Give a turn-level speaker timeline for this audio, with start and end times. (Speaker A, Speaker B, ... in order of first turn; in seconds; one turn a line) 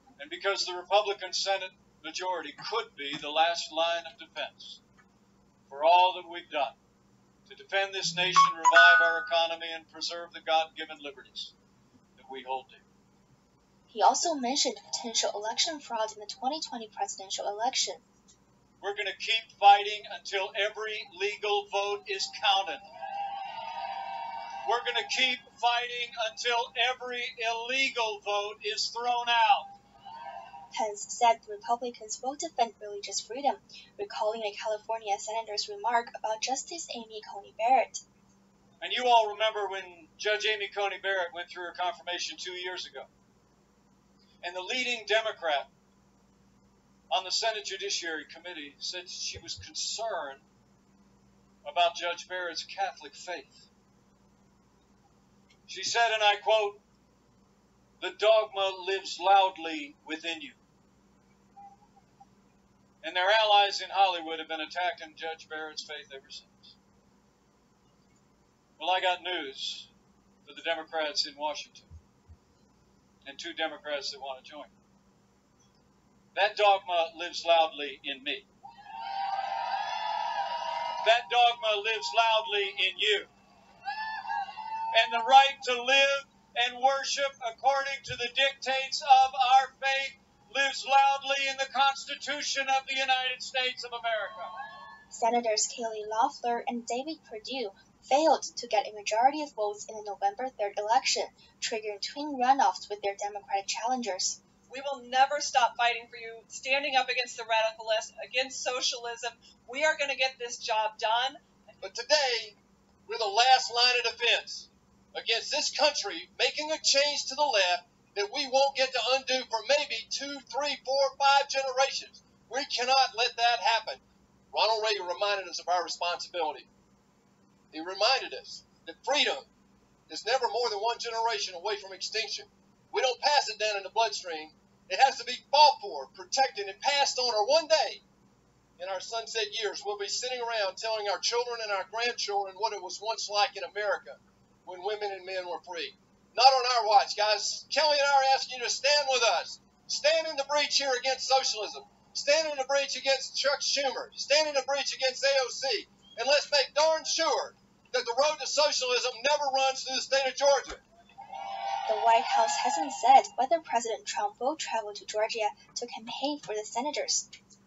Speaker A: 0.2-4.8
Speaker A: 5.7-6.8
Speaker A: 7.5-11.5
Speaker A: 12.2-12.8
Speaker B: 13.9-18.0
Speaker A: 18.8-22.8
Speaker A: 24.6-29.7
Speaker B: 30.7-38.0
Speaker A: 38.8-43.1
Speaker A: 44.4-45.7
Speaker A: 47.1-50.4
Speaker A: 51.6-53.7
Speaker A: 55.7-56.8
Speaker A: 58.0-60.6
Speaker A: 63.0-66.8
Speaker A: 68.8-69.9
Speaker A: 70.4-71.9
Speaker A: 73.2-74.7
Speaker A: 76.3-78.5
Speaker A: 81.0-83.3
Speaker A: 84.9-94.5
Speaker B: 95.1-104.4
Speaker C: 104.7-111.4
Speaker D: 111.8-126.7
Speaker D: 127.7-129.5
Speaker D: 130.1-138.0
Speaker D: 138.8-160.8
Speaker B: 161.9-167.3